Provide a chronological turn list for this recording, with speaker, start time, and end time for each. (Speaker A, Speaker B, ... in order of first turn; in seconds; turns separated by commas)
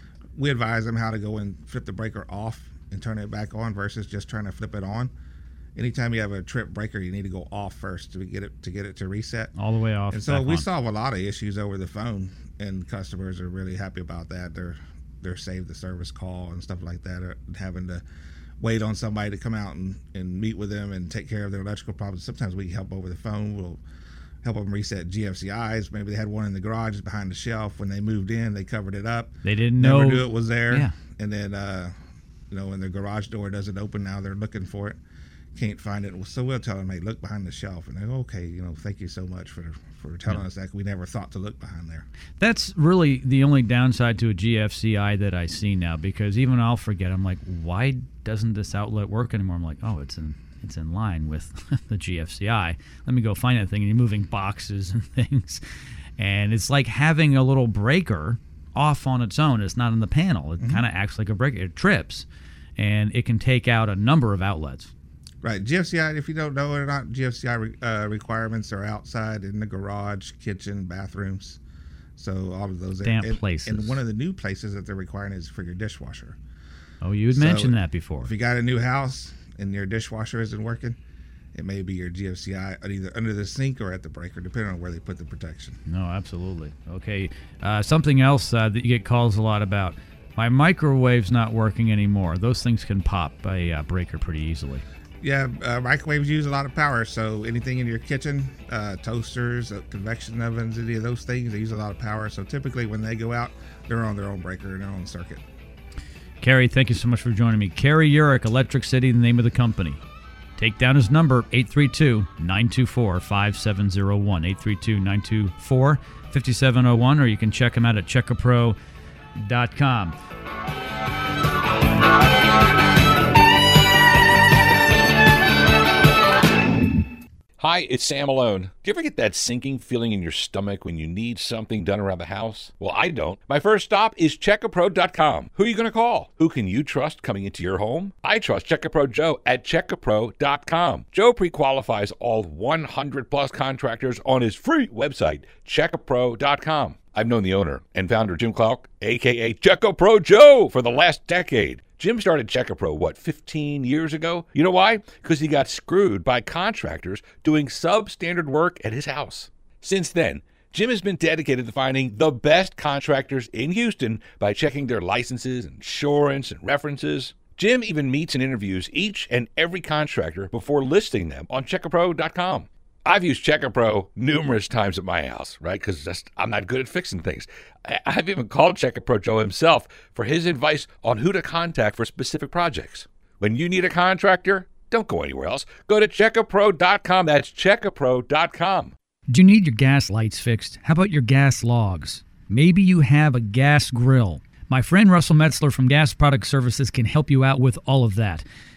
Speaker A: 0.3-5.1, Speaker A: 5.8-9.5, Speaker B: 9.6-10.7, Speaker A: 10.1-18.0, Speaker A: 18.6-23.8, Speaker A: 24.4-31.9, Speaker B: 29.4-30.9, Speaker A: 32.5-35.0, Speaker A: 35.5-42.0, Speaker B: 42.4-55.6, Speaker B: 56.2-62.2, Speaker B: 62.8-64.9, Speaker A: 65.4-71.6, Speaker A: 72.2-76.4, Speaker B: 73.0-74.0, Speaker B: 77.0-78.3, Speaker A: 77.3-81.0, Speaker A: 81.5-85.8, Speaker B: 85.8-94.8, Speaker A: 95.2-105.4, Speaker B: 106.4-110.0, Speaker B: 110.6-118.8, Speaker B: 119.3-120.2, Speaker C: 127.6-188.9, Speaker B: 189.3-198.4